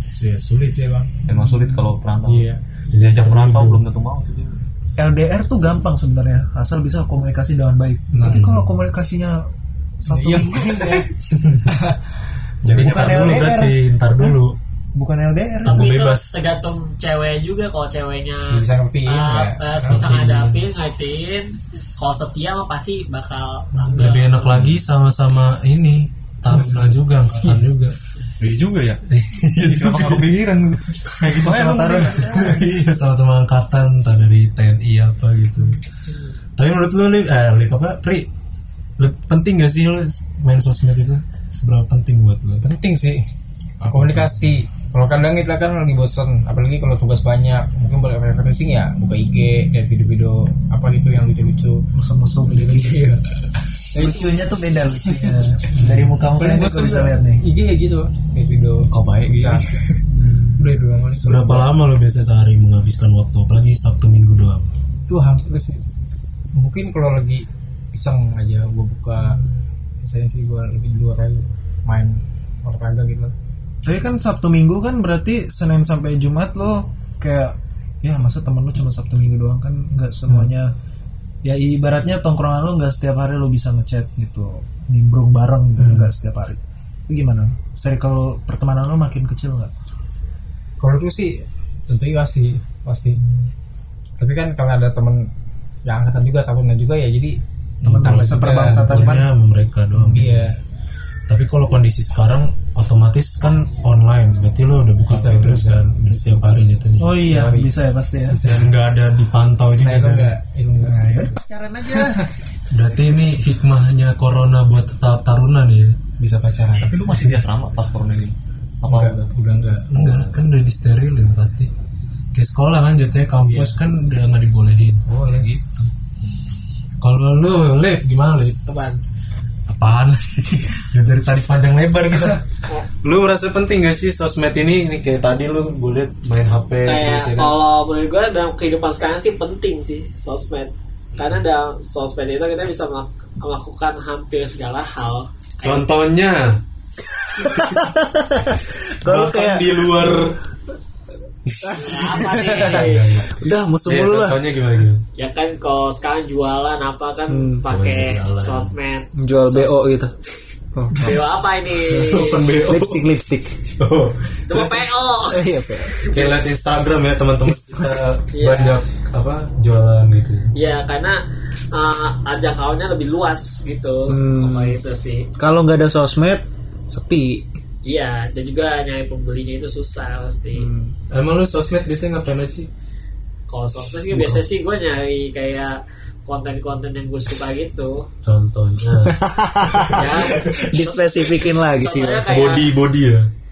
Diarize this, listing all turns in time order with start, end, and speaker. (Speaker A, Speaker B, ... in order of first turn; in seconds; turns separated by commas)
Speaker A: 0.1-1.2, Speaker B: 1.2-4.6, Speaker A: 2.2-2.6, Speaker C: 2.9-3.8, Speaker D: 5.0-9.5, Speaker C: 8.1-8.8, Speaker D: 10.0-11.1, Speaker A: 10.1-11.1, Speaker A: 11.7-12.0, Speaker B: 12.6-13.6, Speaker C: 12.7-14.6, Speaker D: 12.7-14.4, Speaker D: 14.9-15.9, Speaker E: 15.6-24.6, Speaker C: 15.7-16.4, Speaker A: 18.5-20.2, Speaker C: 19.8-20.7, Speaker C: 23.9-28.0, Speaker B: 28.4-29.0, Speaker C: 29.1-30.3, Speaker B: 29.6-32.6, Speaker D: 31.3-32.6, Speaker C: 32.2-35.8, Speaker C: 36.6-38.3, Speaker C: 39.0-42.6, Speaker A: 42.6-43.2, Speaker C: 43.8-44.5, Speaker A: 43.9-51.8, Speaker D: 51.9-53.0, Speaker A: 52.5-53.2, Speaker A: 53.8-54.5, Speaker D: 53.9-57.4, Speaker A: 55.1-55.4, Speaker C: 55.8-56.1, Speaker A: 56.4-59.8, Speaker B: 58.9-60.0, Speaker D: 60.1-60.5, Speaker A: 60.6-61.7, Speaker C: 61.1-64.7, Speaker A: 65.1-65.8, Speaker A: 66.5-69.4, Speaker A: 70.0-73.3, Speaker D: 73.8-80.7, Speaker D: 81.4-89.7, Speaker C: 85.8-86.1, Speaker A: 90.8-93.2, Speaker A: 94.2-95.3, Speaker A: 95.8-97.4, Speaker D: 97.8-99.3, Speaker C: 97.8-100.5, Speaker A: 98.0-99.1, Speaker A: 100.0-100.5, Speaker C: 101.3-107.2, Speaker A: 105.1-107.7, Speaker D: 107.0-108.4, Speaker A: 108.3-108.7, Speaker C: 108.4-110.3, Speaker A: 109.8-111.4, Speaker D: 110.9-112.3, Speaker C: 112.7-116.0, Speaker D: 116.2-117.0, Speaker B: 116.8-119.3, Speaker A: 118.8-119.9, Speaker B: 119.9-120.4, Speaker C: 119.9-121.7, Speaker C: 122.3-125.9, Speaker A: 123.4-123.8, Speaker A: 125.1-125.5, Speaker B: 126.2-126.5, Speaker C: 127.0-128.6, Speaker E: 128.7-129.0, Speaker C: 129.7-132.5, Speaker C: 133.0-137.6, Speaker E: 136.8-145.9, Speaker C: 145.6-146.6, Speaker D: 147.0-150.2, Speaker C: 149.0-150.4, Speaker C: 151.4-155.0, Speaker D: 151.6-154.4, Speaker E: 151.7-153.3, Speaker E: 155.2-159.8, Speaker D: 157.3-157.7, Speaker C: 157.7-158.8, Speaker D: 159.2-160.1, Speaker D: 160.7-161.3, Speaker E: 161.0-162.6, Speaker D: 161.8-163.6, Speaker C: 161.9-163.1, Speaker C: 163.8-164.9, Speaker E: 164.5-165.5, Speaker D: 165.3-166.1, Speaker C: 166.0-170.5, Speaker D: 167.5-167.9, Speaker E: 168.3-168.8, Speaker E: 170.5-171.2, Speaker E: 171.7-175.3, Speaker D: 174.1-174.8, Speaker D: 175.3-177.5, Speaker E: 177.8-180.7, Speaker D: 180.5-180.9, Speaker C: 181.1-182.7, Speaker E: 183.5-188.1, Speaker C: 184.1-184.4, Speaker C: 188.2-189.9, Speaker D: 189.0-192.4, Speaker E: 189.9-192.7, Speaker C: 192.3-193.3